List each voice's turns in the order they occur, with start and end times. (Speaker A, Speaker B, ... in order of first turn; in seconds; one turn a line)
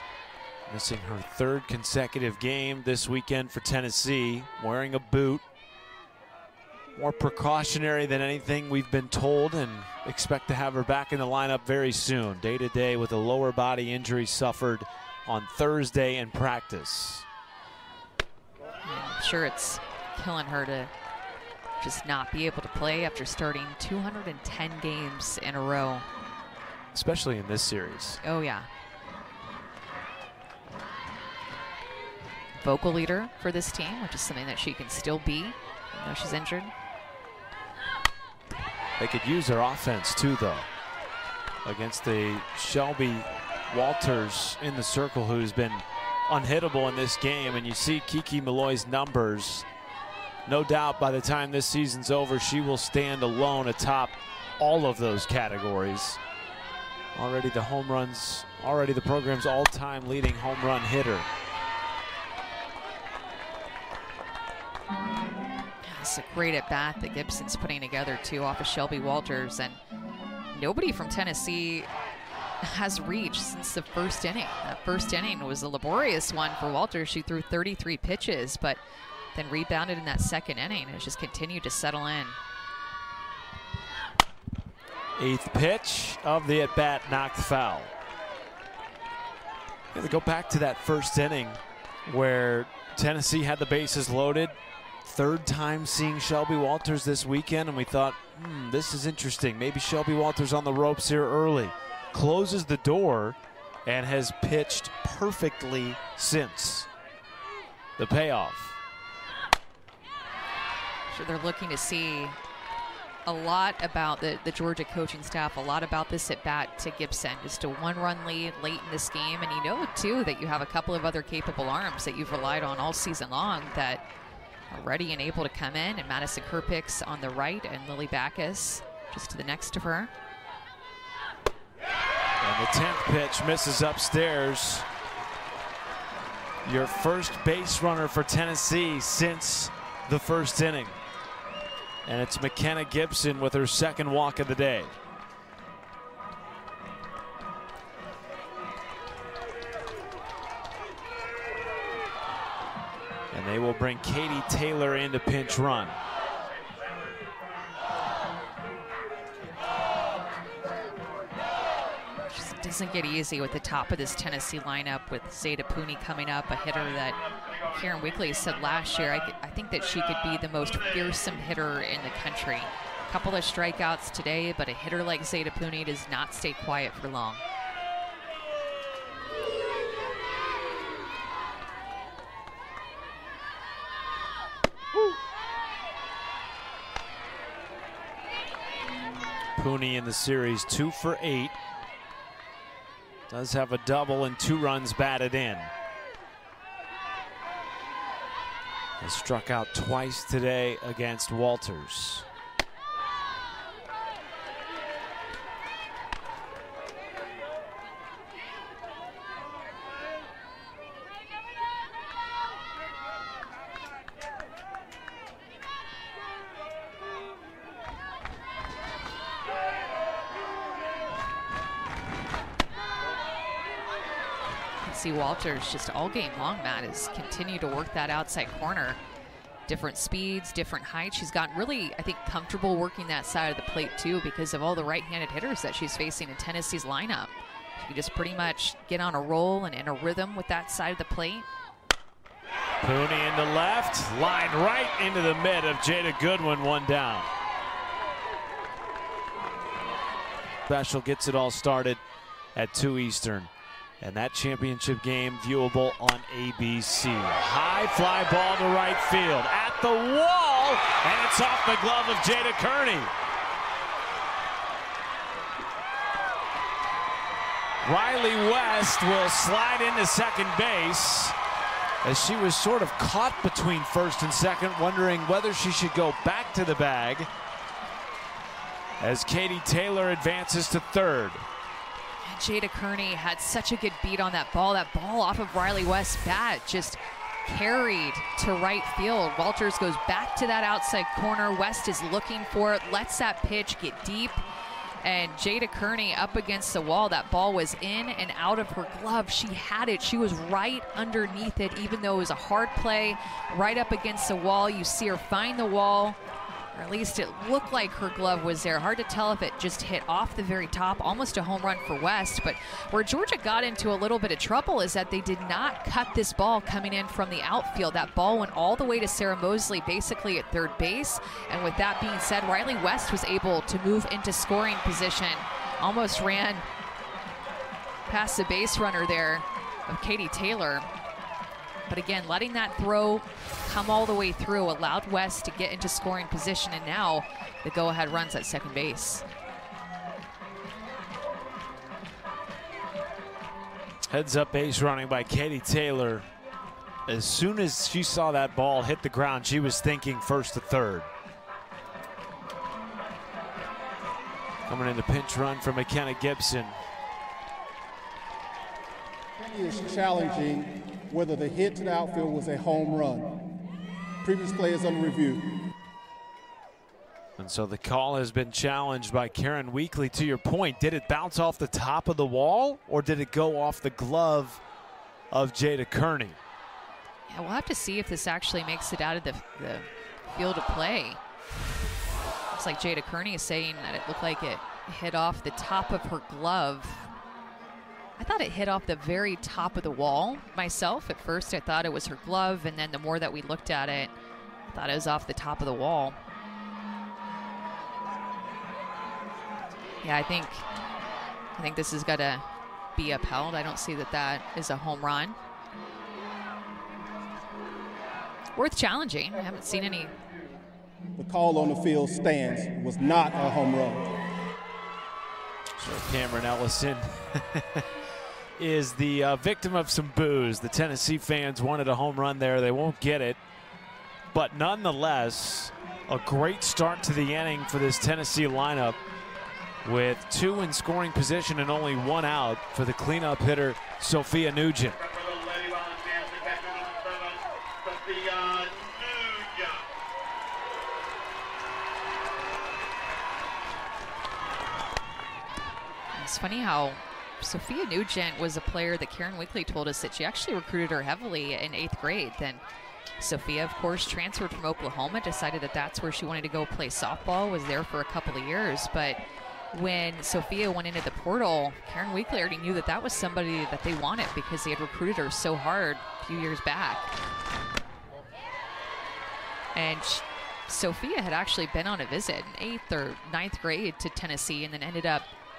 Speaker A: 0.7-5.4
Speaker A: 6.9-17.2
Speaker B: 18.9-20.9
Speaker B: 21.8-26.1
Speaker A: 26.9-28.2
Speaker B: 28.2-28.7
Speaker B: 32.6-36.7
Speaker A: 39.0-40.7
Speaker A: 41.6-49.6
Speaker A: 50.5-56.2
Speaker A: 57.1-61.3
Speaker B: 65.8-69.8
Speaker B: 70.5-71.9
Speaker B: 72.6-78.8
Speaker B: 79.3-82.4
Speaker A: 85.2-87.9
Speaker A: 89.9-106.9
Speaker A: 108.0-108.7
Speaker B: 111.1-112.4
Speaker B: 113.2-124.0
Speaker B: 124.7-130.1
Speaker A: 132.4-134.9
Speaker A: 136.6-141.0
Speaker A: 142.0-144.9
Speaker A: 153.3-156.0
Speaker B: 162.2-177.4
Speaker A: 189.6-191.6
Speaker A: 193.3-195.7
Speaker A: 199.0-202.3
Speaker B: 224.8-229.0
Speaker B: 229.7-241.4
Speaker A: 242.8-247.3
Speaker A: 250.7-252.0
Speaker A: 252.5-263.1
Speaker A: 267.8-271.4
Speaker A: 272.0-277.3
Speaker A: 279.0-281.4
Speaker B: 282.2-294.4
Speaker B: 295.0-306.2
Speaker B: 306.7-326.7
Speaker B: 328.1-330.9
Speaker B: 331.9-339.2
Speaker A: 344.1-346.3
Speaker A: 347.1-351.1
Speaker A: 354.7-356.8
Speaker C: 359.4-363.5
Speaker C: 364.2-365.6
Speaker A: 367.4-374.6
Speaker A: 375.3-376.4
Speaker B: 377.3-381.2
Speaker B: 382.5-387.1
Speaker B: 388.2-394.1
Speaker B: 394.7-396.2
Speaker B: 400.0-400.7
Speaker B: 401.6-405.4
Speaker B: 408.6-410.1
Speaker C: 411.2-414.1
Speaker A: 415.8-417.9
Speaker A: 418.6-423.4
Speaker A: 424.3-429.0
Speaker A: 429.8-435.1
Speaker B: 446.1-452.6
Speaker B: 453.2-467.1
Speaker B: 469.7-475.3